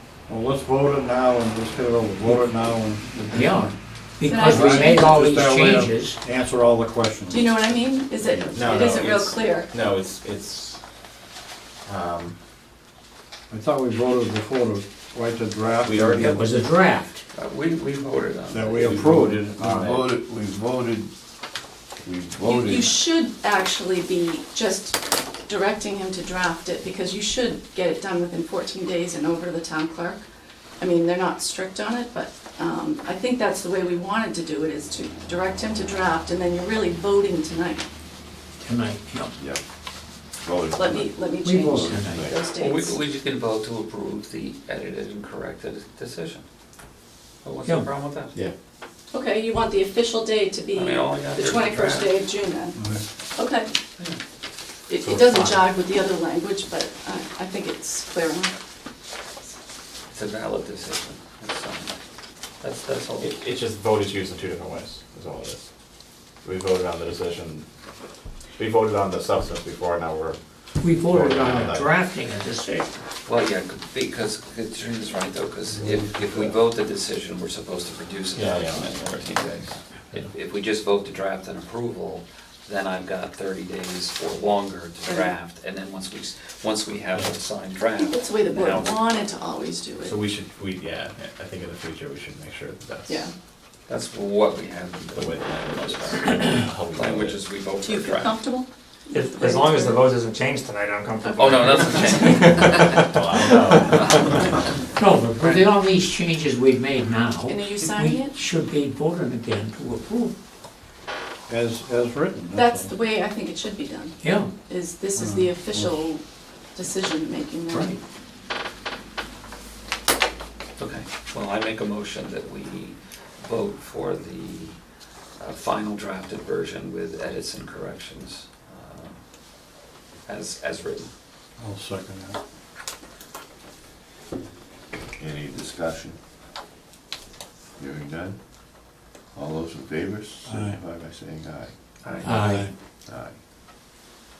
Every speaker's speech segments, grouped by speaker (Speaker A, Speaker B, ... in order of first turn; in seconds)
Speaker A: 0.3-3.8, 4.5-7.5, 13.5-16.6, 18.5-19.6, 52.8-53.0, 111.5-112.9, 115.2-116.0, 131.6-132.4, 140.4-140.8, 142.5-142.7
Speaker B: 2.2-2.6, 3.3-6.2, 16.2-17.2, 38.6-39.3, 41.4-42.3, 70.8-72.9, 104.9-110.3, 114.2-114.5, 117.7-118.0, 142.2-142.7
Speaker C: 4.2-5.1, 7.3-9.7, 22.4-30.2, 30.8-37.8, 40.7-43.0, 49.1-52.8, 53.4-53.7, 54.9-58.5, 88.0-90.2, 93.1-93.3, 97.8-100.1, 101.2-102.3, 107.5-108.3, 112.5-116.2, 116.7-118.0
Speaker D: 8.5-10.8, 11.8-12.3, 15.8-16.3, 18.8-20.1, 55.0-55.6, 63.2-65.6, 66.4-67.7, 68.5-70.4, 71.0-71.9, 75.8-76.5, 78.3-79.1, 90.0-93.3, 95.1-97.4, 103.0-104.6
Speaker E: 17.3-19.0, 42.5-46.4, 47.4-48.3, 50.7-52.2, 60.1-62.0, 62.6-63.4, 73.2-89.0, 93.9-98.4, 101.3-104.3, 120.8-124.8, 125.4-129.2, 130.2-131.1, 142.0-142.4
Speaker F: 19.5-21.1, 22.0-22.9, 40.4-42.3, 135.2-136.2, 137.8-138.4, 139.3-141.7, 143.0-143.4
Speaker G: 99.1-101.8